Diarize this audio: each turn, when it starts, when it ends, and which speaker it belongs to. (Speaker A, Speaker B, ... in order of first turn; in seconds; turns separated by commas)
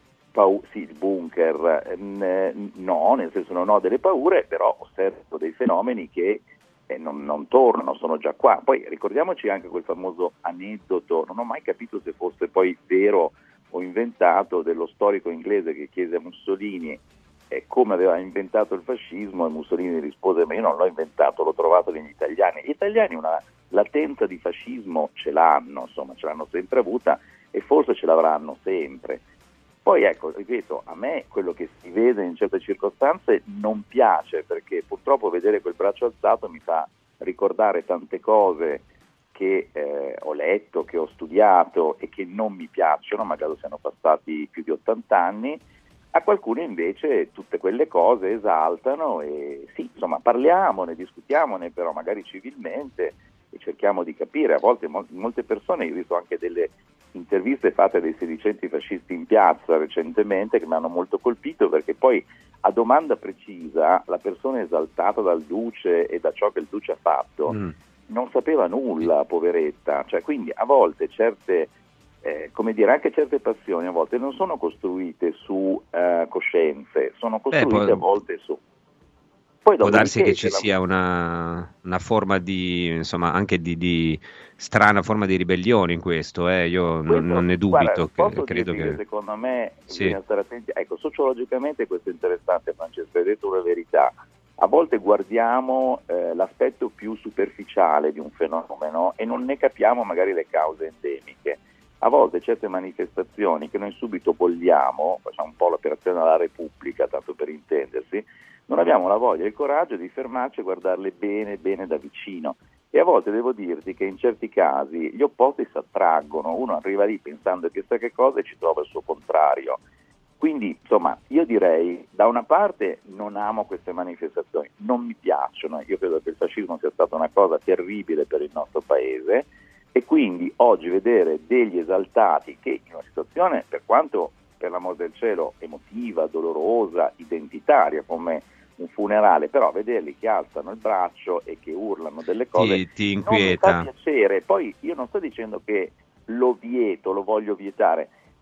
Speaker A: 0.3-29.2, Speaker A: 29.8-67.6, Speaker B: 67.5-67.7, Speaker A: 68.1-71.7, Speaker A: 72.2-78.6, Speaker B: 77.5-78.0, Speaker A: 79.6-80.7, Speaker B: 79.8-89.0, Speaker A: 87.1-119.8, Speaker B: 89.9-90.2, Speaker A: 120.4-148.1, Speaker B: 142.6-143.9